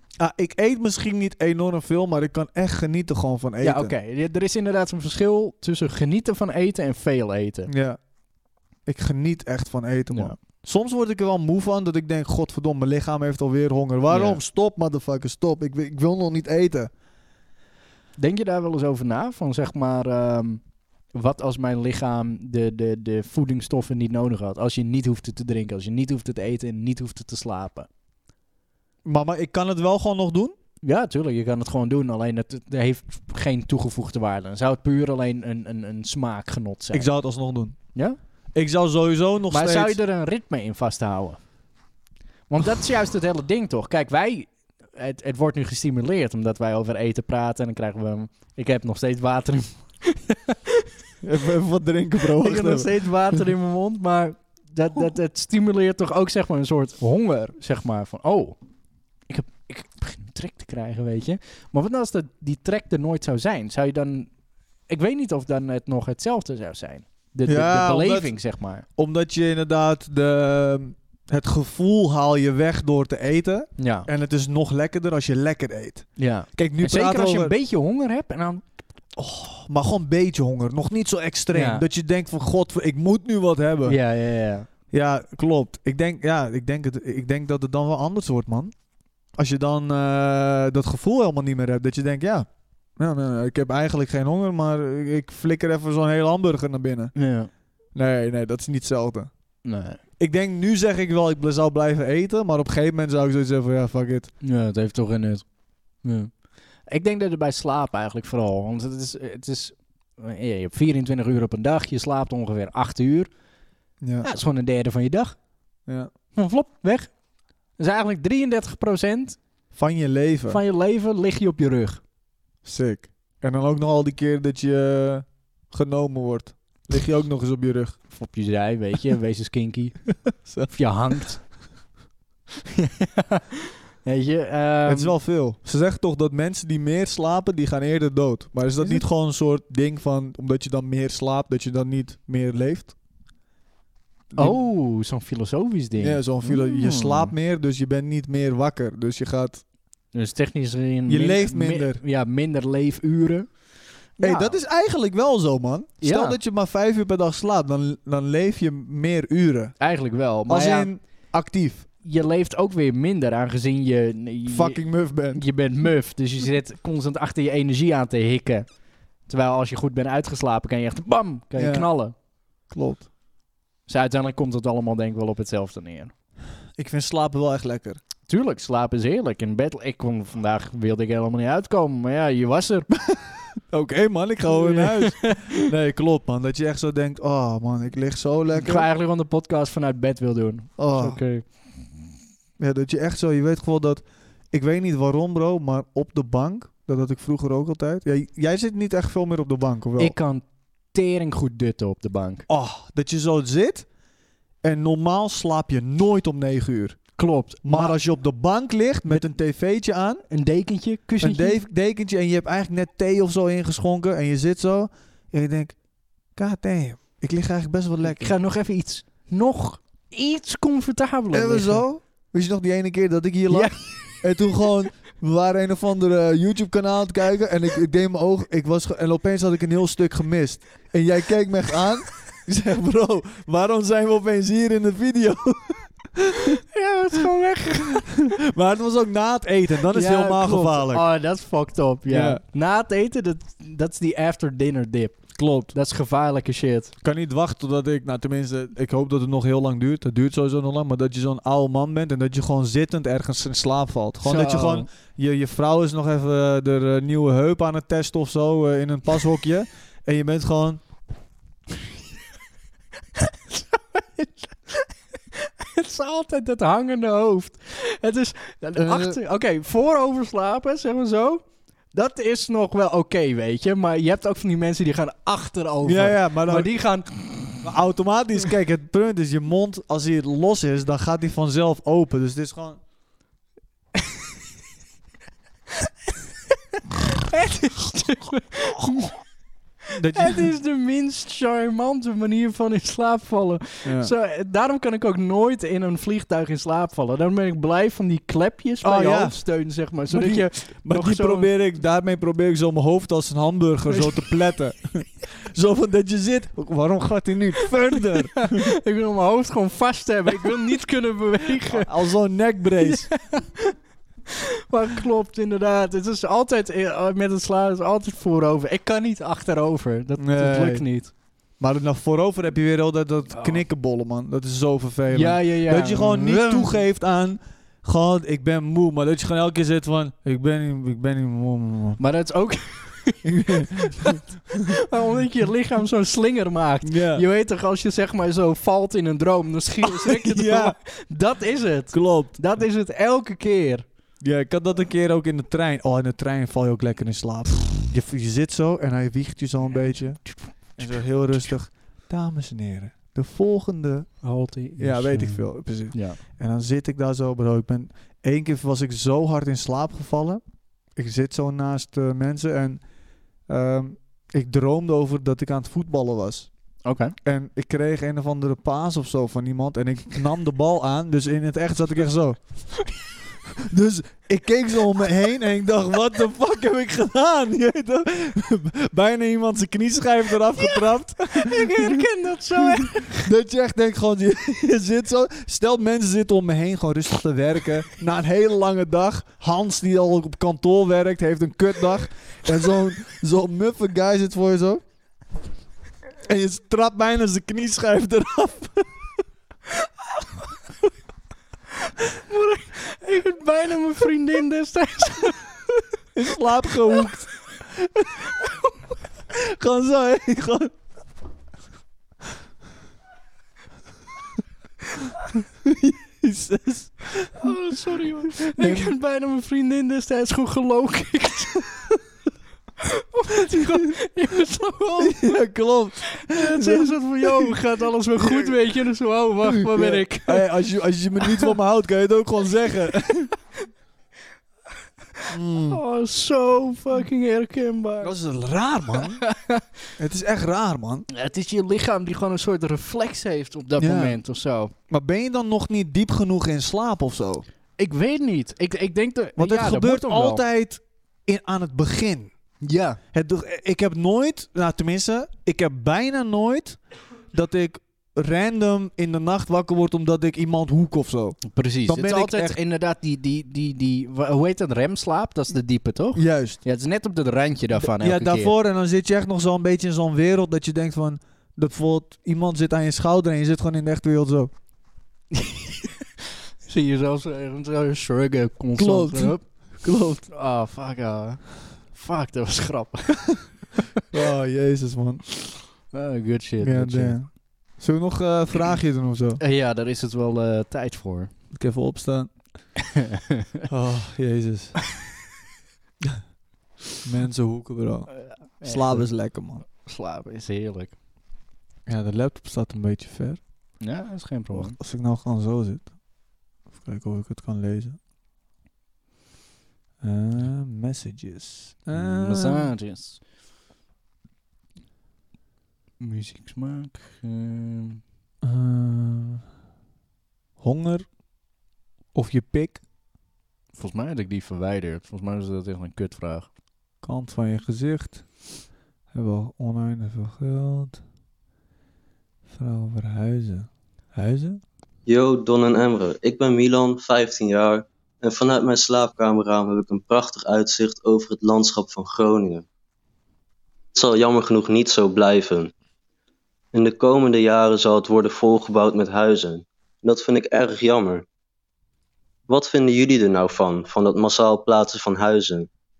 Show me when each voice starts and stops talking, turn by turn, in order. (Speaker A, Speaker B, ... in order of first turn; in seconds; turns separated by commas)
Speaker A: 0.2-3.9, Speaker B: 3.6-7.7, Speaker A: 7.7-8.0, Speaker A: 8.9-16.9, Speaker B: 10.1-10.4, Speaker B: 14.1-14.4, Speaker B: 18.2-20.6, Speaker B: 21.1-27.9, Speaker A: 29.1-30.6, Speaker B: 30.8-37.1, Speaker A: 36.9-37.8, Speaker A: 38.5-40.0, Speaker B: 39.5-41.4, Speaker B: 42.5-50.9, Speaker A: 51.2-53.5, Speaker B: 52.4-58.6, Speaker B: 59.3-64.3, Speaker B: 64.9-68.9, Speaker A: 67.5-68.3, Speaker A: 69.0-77.5, Speaker B: 73.8-74.1, Speaker B: 76.2-78.6, Speaker A: 79.2-84.0, Speaker B: 81.5-81.8, Speaker B: 83.9-84.7, Speaker A: 84.9-88.7, Speaker A: 89.4-97.1, Speaker B: 97.2-97.5, Speaker A: 98.0-99.3, Speaker B: 99.7-100.0, Speaker A: 100.2-104.3, Speaker B: 104.4-105.5, Speaker B: 106.0-106.3, Speaker B: 106.9-113.3, Speaker A: 114.0-114.3, Speaker B: 114.2-115.4, Speaker B: 116.3-117.1, Speaker B: 117.8-119.4, Speaker A: 119.7-120.6, Speaker B: 120.5-122.0, Speaker A: 122.6-128.0, Speaker B: 128.1-130.1, Speaker A: 130.3-130.7, Speaker B: 130.7-131.4, Speaker B: 132.8-133.5, Speaker B: 134.0-135.2, Speaker A: 134.8-142.9, Speaker A: 144.3-144.6, Speaker B: 144.4-147.3, Speaker A: 146.0-149.6, Speaker B: 150.1-153.5, Speaker A: 151.1-152.0, Speaker B: 154.2-154.6, Speaker A: 154.2-159.7, Speaker B: 156.0-156.4, Speaker B: 159.8-160.9, Speaker A: 160.5-161.9, Speaker B: 162.0-164.8, Speaker A: 164.5-165.4, Speaker B: 165.3-168.7, Speaker B: 169.3-172.1, Speaker A: 171.6-171.9, Speaker A: 172.7-173.1, Speaker B: 173.9-176.1, Speaker A: 176.8-178.0, Speaker B: 178.3-182.9, Speaker A: 183.0-188.9, Speaker B: 184.5-185.6, Speaker B: 188.6-191.5, Speaker A: 190.8-191.2, Speaker A: 192.6-200.2, Speaker B: 200.0-202.5, Speaker A: 202.5-203.9, Speaker A: 204.6-207.0, Speaker B: 207.2-208.0, Speaker A: 207.6-210.2, Speaker B: 210.3-211.6, Speaker A: 211.2-215.8, Speaker A: 216.4-218.3, Speaker B: 218.1-221.8, Speaker A: 221.3-236.6, Speaker B: 223.5-224.2, Speaker B: 236.7-238.2, Speaker A: 238.1-241.1, Speaker B: 239.9-246.9, Speaker A: 242.1-242.4, Speaker A: 245.3-245.7, Speaker A: 247.0-260.8, Speaker B: 254.2-254.9, Speaker B: 263.2-277.6, Speaker A: 268.8-269.2, Speaker A: 275.8-276.7, Speaker A: 277.6-282.8, Speaker B: 287.1-289.2, Speaker A: 289.9-290.5, Speaker B: 290.1-301.5, Speaker A: 293.9-294.1, Speaker A: 298.8-299.4, Speaker A: 300.1-308.7, Speaker B: 303.9-304.2, Speaker B: 308.0-312.1, Speaker A: 311.7-313.1, Speaker B: 312.9-313.8, Speaker B: 314.7-321.1, Speaker A: 320.2-320.8, Speaker A: 321.6-332.0, Speaker B: 323.3-323.6, Speaker B: 325.1-326.8, Speaker B: 332.0-343.9, Speaker A: 333.2-334.7, Speaker A: 336.8-337.2, Speaker A: 339.8-340.8, Speaker A: 341.9-342.4, Speaker A: 344.2-354.1, Speaker B: 350.3-351.5, Speaker B: 354.2-356.2, Speaker A: 354.8-360.4, Speaker A: 360.9-362.8, Speaker A: 363.5-366.5, Speaker B: 366.9-367.1, Speaker A: 367.2-372.7, Speaker A: 373.6-394.8, Speaker B: 381.3-383.3, Speaker A: 396.2-398.9, Speaker B: 402.1-405.5, Speaker A: 406.1-408.3, Speaker A: 409.3-410.7, Speaker A: 415.3-417.5, Speaker B: 417.4-421.7, Speaker A: 418.4-418.9, Speaker B: 422.8-425.4, Speaker A: 425.0-427.6, Speaker B: 426.1-430.5, Speaker A: 428.2-428.6, Speaker A: 429.5-433.3, Speaker B: 431.2-431.5, Speaker A: 435.3-435.8, Speaker B: 435.7-438.1, Speaker A: 438.0-439.2, Speaker B: 439.2-439.6, Speaker A: 440.0-441.1, Speaker B: 441.1-444.7, Speaker A: 443.8-444.2, Speaker A: 444.9-447.4, Speaker B: 447.8-450.4, Speaker A: 449.4-452.3, Speaker B: 452.6-453.0, Speaker A: 453.1-456.8, Speaker A: 457.3-462.6, Speaker B: 461.5-468.5, Speaker A: 466.2-466.6, Speaker A: 467.8-474.5, Speaker B: 475.4-475.7, Speaker B: 476.7-479.4, Speaker A: 478.8-480.3, Speaker B: 480.3-483.8, Speaker A: 484.1-485.2, Speaker B: 485.9-487.2, Speaker A: 486.6-489.4, Speaker B: 489.4-491.3, Speaker A: 491.5-492.3, Speaker B: 492.9-493.5, Speaker A: 493.7-494.8, Speaker A: 497.0-499.6, Speaker B: 498.1-499.1, Speaker B: 499.7-500.9, Speaker A: 501.9-503.4, Speaker B: 503.8-504.8, Speaker A: 504.5-505.9, Speaker A: 506.8-508.0, Speaker A: 510.0-512.7, Speaker B: 511.9-513.2, Speaker B: 516.0-518.0, Speaker A: 518.4-519.4, Speaker A: 520.6-521.1, Speaker A: 522.1-522.8, Speaker B: 523.8-526.5, Speaker A: 527.0-528.3, Speaker A: 529.1-531.0, Speaker A: 532.5-534.6, Speaker C: 535.1-542.7, Speaker C: 544.0-545.7, Speaker C: 546.7-551.2, Speaker C: 552.5-555.7